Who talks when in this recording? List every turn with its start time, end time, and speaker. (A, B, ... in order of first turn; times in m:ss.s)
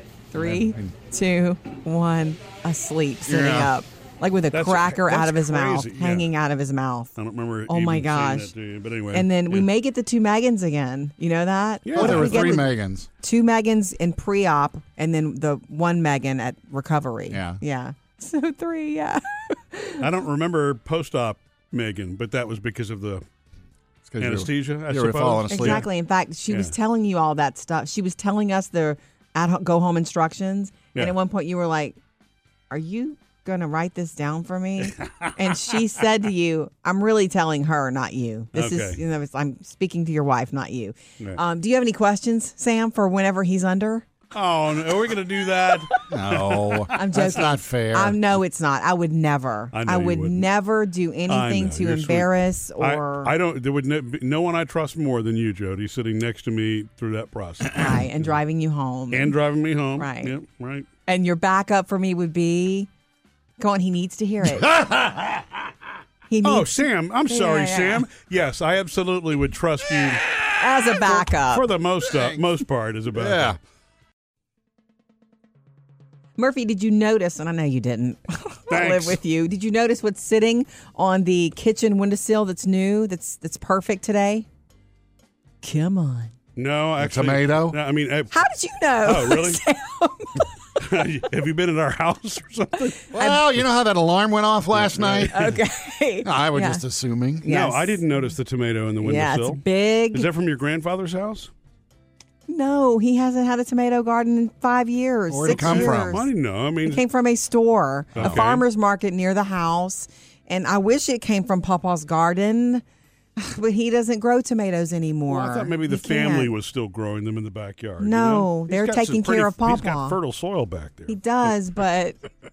0:00.3-0:07.1 A
0:00.4-0:00.9 B
0:03.3-0:03.7 B
0:04.5-0:06.3 C
0:07.2-0:09.7 C
0:07.7-0:08.5 A
0:09.1-0:20.1 A
0:11.9-0:12.6 C
0:12.0-0:13.1 B
0:17.3-0:17.6 B
0:20.0-0:23.2 C
0:24.1-0:25.8 B
0:24.2-0:25.9 C
0:25.5-0:32.0 A
0:32.7-0:44.1 A
0:35.1-0:35.5 C
0:38.5-0:39.0 C
0:44.3-0:47.0 C
0:46.1-0:48.2 B
0:46.9-0:53.3 A
0:49.7-0:50.4 C
0:51.3-0:58.3 C
0:57.7-0:59.4 A
0:59.1-1:00.9 C
1:00.0-1:00.3 A
1:01.1-1:02.9 A
1:03.6-1:04.7 A
1:04.8-1:05.4 C
1:06.3-1:08.1 A
1:06.4-1:10.2 C
1:10.6-1:11.7 A
1:11.1-1:13.6 C
1:12.1-1:12.4 B
1:13.1-1:13.6 B
1:16.4-1:24.5 A
1:18.7-1:19.2 C
1:25.6-1:26.3 A
1:26.6-1:28.4 C
1:27.0-1:27.8 B
1:28.3-1:30.5 A
1:29.0-1:29.6 C
1:30.8-1:33.0 C
1:33.1-1:35.4 B
1:33.2-1:33.4 A
1:34.7-1:35.6 C
1:35.3-1:36.8 A
1:36.2-1:37.5 B
1:37.4-1:38.1 A
1:37.5-1:41.5 C
1:39.0-1:40.3 A
1:42.5-1:46.3 A
1:45.3-1:46.2 B
1:45.4-1:47.0 C
1:46.8-1:52.8 A
1:48.2-1:48.7 C
1:53.4-1:56.5 A
1:55.3-2:01.5 C
1:58.0-2:00.2 A
2:01.1-2:02.2 A